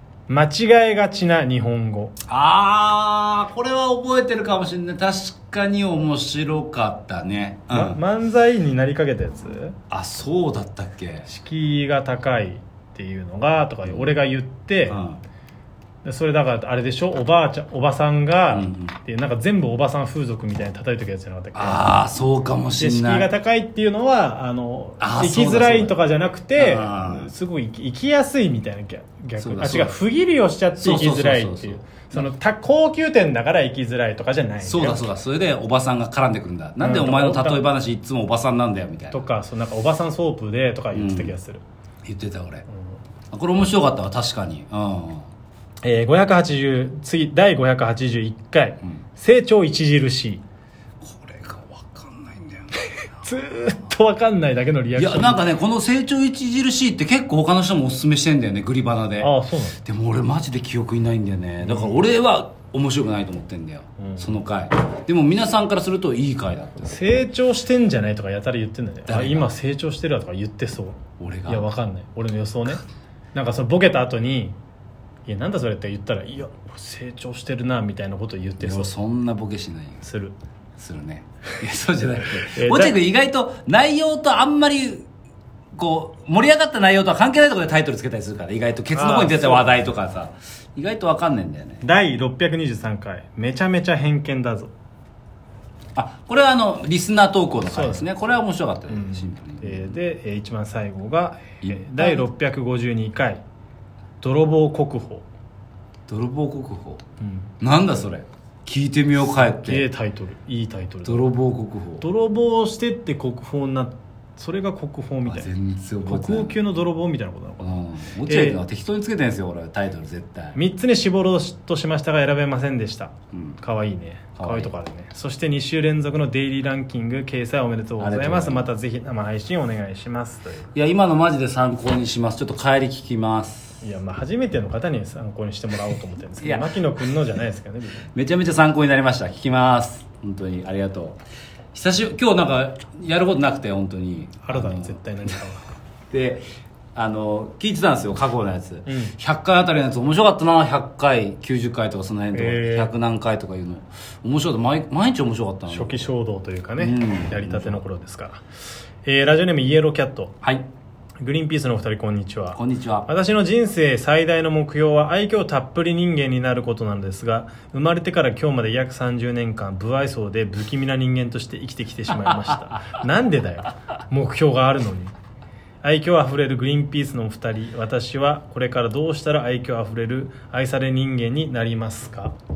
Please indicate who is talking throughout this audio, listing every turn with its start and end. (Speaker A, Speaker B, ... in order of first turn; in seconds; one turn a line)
Speaker A: 0.3-2.1
Speaker B: 2.3-8.0
Speaker A: 7.7-9.8
Speaker B: 9.9-11.3
Speaker A: 11.2-15.0
Speaker B: 13.8-14.1
Speaker B: 14.9-15.2
Speaker A: 16.0-21.9
Speaker B: 18.5-18.9
Speaker B: 21.5-23.3
Speaker A: 22.8-35.1
Speaker B: 25.0-26.0
Speaker B: 26.6-27.3
Speaker B: 29.4-29.9
Speaker B: 30.8-32.3
Speaker B: 34.6-39.2
Speaker A: 36.8-37.6
Speaker A: 39.1-41.6
Speaker B: 40.9-41.3
Speaker B: 42.0-42.6
Speaker B: 43.3-45.3
Speaker A: 45.8-50.4
Speaker B: 51.0-53.1
Speaker A: 53.2-55.5
Speaker B: 54.9-59.3
Speaker A: 59.2-59.8
Speaker B: 59.8-67.2
Speaker A: 61.6-62.0
Speaker A: 64.0-64.3
Speaker A: 66.8-74.5
Speaker B: 69.1-69.5
Speaker B: 71.2-71.6
Speaker A: 75.3-78.9
Speaker B: 78.6-80.0
Speaker A: 80.0-80.3
Speaker B: 80.8-85.1
Speaker A: 82.3-83.0
Speaker B: 85.7-91.8
Speaker A: 88.9-89.7
Speaker A: 91.8-94.7
Speaker B: 96.0-100.0
Speaker A: 97.7-98.1
Speaker A: 98.9-103.4
Speaker B: 101.6-102.2
Speaker A: 104.2-105.2
Speaker B: 106.1-107.0
Speaker A: 107.2-107.5
Speaker B: 107.6-109.9
Speaker A: 109.3-111.3
Speaker B: 111.0-112.0
Speaker A: 112.0-115.5
Speaker B: 115.2-116.5
Speaker A: 116.0-117.7
Speaker B: 117.6-120.6
Speaker A: 118.2-118.6
Speaker A: 120.5-130.7
Speaker B: 123.3-123.6
Speaker B: 124.4-124.7
Speaker B: 128.0-128.7
Speaker B: 130.7-133.8
Speaker A: 133.8-138.1
Speaker B: 136.4-136.8
Speaker B: 138.1-141.2
Speaker B: 141.7-145.0
Speaker A: 144.4-145.7
Speaker B: 146.1-156.1
Speaker A: 148.9-149.1
Speaker A: 152.3-152.9
Speaker A: 155.7-158.4
Speaker B: 156.8-157.8
Speaker A: 159.0-160.3
Speaker B: 160.4-160.7
Speaker A: 161.2-175.1
Speaker B: 162.5-163.1
Speaker B: 172.1-172.8
Speaker A: 175.8-182.3